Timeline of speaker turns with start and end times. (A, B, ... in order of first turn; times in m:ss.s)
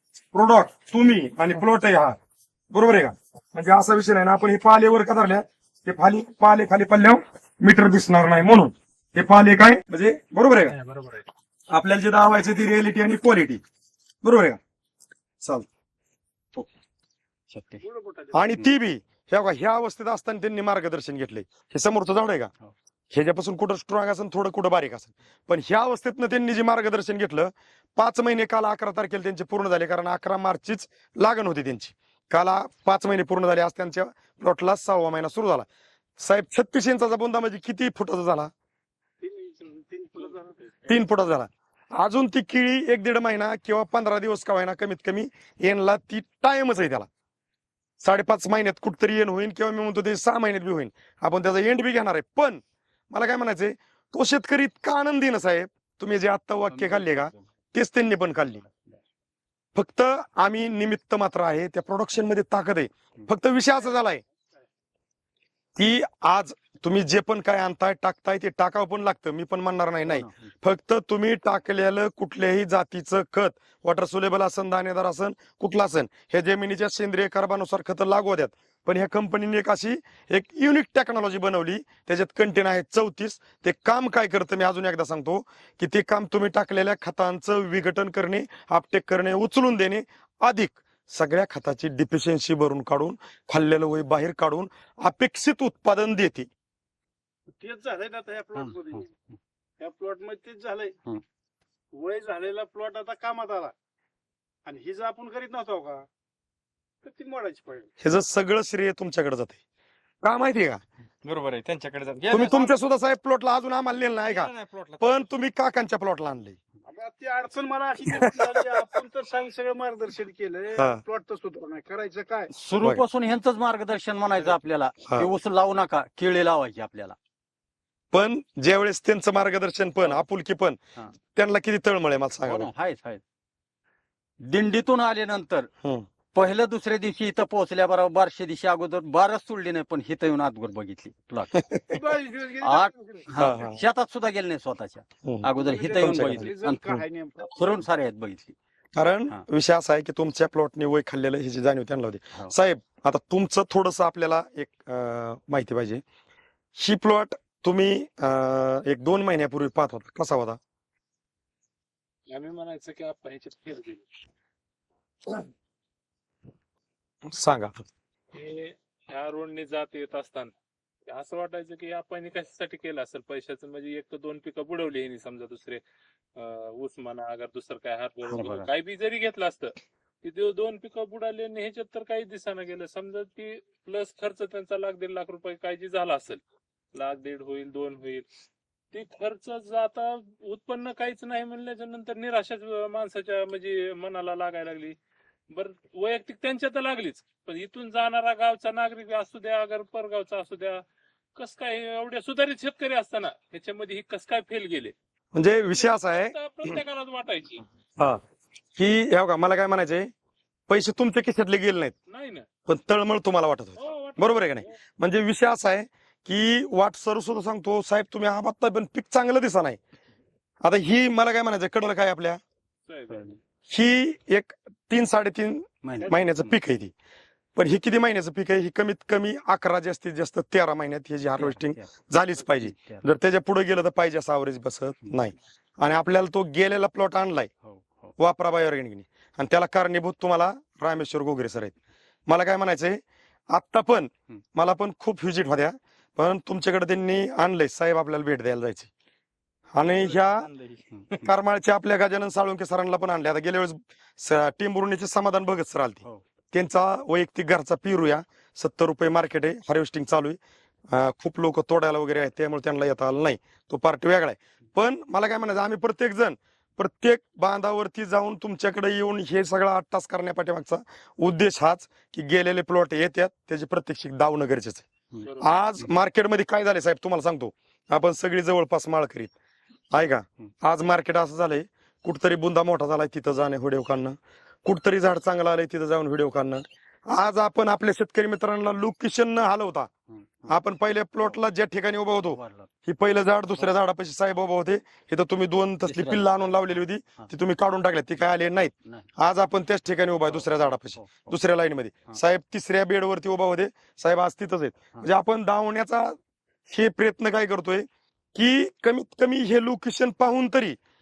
0:00.3-0:02.2 A
0:02.7-0:10.7 A
0:10.7-0:11.3 B
0:11.7-0:13.6 A
0:14.2-0:14.6 A
0:17.5-0:17.8 C
0:17.8-0:18.6 B
0:18.3-0:22.5 A
0:23.1-0:35.6 A
0:36.2-0:38.5 A
0:39.2-0:40.8 B
0:40.9-0:47.1 A
0:48.0-0:52.6 A
0:53.1-0:58.6 A
0:56.7-0:57.4 C
0:59.7-1:04.2 A
1:05.8-1:36.5 A
1:10.0-1:10.5 C
1:37.6-1:39.1 B
1:39.8-1:41.0 B
1:42.0-1:43.7 B
1:44.6-1:46.0 B
1:47.0-1:47.9 B
1:48.0-1:49.6 A
1:50.2-1:50.8 A
1:51.2-1:52.7 D
1:52.3-1:56.6 A
1:54.2-1:55.2 D
1:56.9-2:02.5 B
1:58.0-1:58.5 A
2:02.5-2:07.2 C
2:08.1-2:10.8 A
2:11.3-2:12.7 A
2:12.4-2:13.2 C
2:14.4-2:15.7 C
2:16.3-2:21.5 C
2:21.6-2:22.0 A
2:21.9-2:23.3 B
2:22.6-2:28.5 C
2:23.4-2:23.8 A
2:25.2-2:26.5 A
2:25.6-2:27.8 B
2:28.9-2:36.0 A
2:36.8-2:40.6 A
2:42.3-2:44.0 E
2:47.3-2:47.8 A
2:48.3-2:50.5 E
2:51.1-2:55.8 E
2:56.4-2:59.7 E
2:58.2-2:58.7 C
3:00.2-3:06.4 E
3:06.9-3:08.3 E
3:08.9-3:15.0 E
3:15.5-3:20.8 E
3:21.4-3:24.9 E
3:25.3-3:26.8 A
3:25.8-3:27.6 E
3:28.8-3:30.1 A
3:30.7-3:31.9 A
3:32.1-3:32.4 E
3:32.6-3:39.8 A
3:33.8-3:34.8 E
3:40.6-3:42.4 A
3:42.9-3:43.2 E
3:43.1-3:43.4 C
3:43.7-3:46.9 A
3:45.8-3:46.6 C
3:47.6-3:57.5 A
3:51.4-3:53.0 C
3:57.6-3:58.2 C
3:58.2-4:01.7 A
4:02.3-4:03.0 A
4:03.5-4:08.9 A
4:09.7-4:10.5 A
4:09.8-4:10.8 D
4:10.9-4:11.3 C
4:11.2-4:20.4 A
4:20.9-4:34.8 A
4:35.1-4:35.9 C
4:35.2-4:35.6 E
4:35.4-4:39.3 A
4:39.9-4:49.9 A
4:50.1-4:50.6 C
4:50.5-5:06.2 A
4:52.3-4:52.7 C
4:55.8-4:56.5 C
4:58.8-4:59.1 C
5:00.2-5:01.4 C
5:06.7-5:10.8 A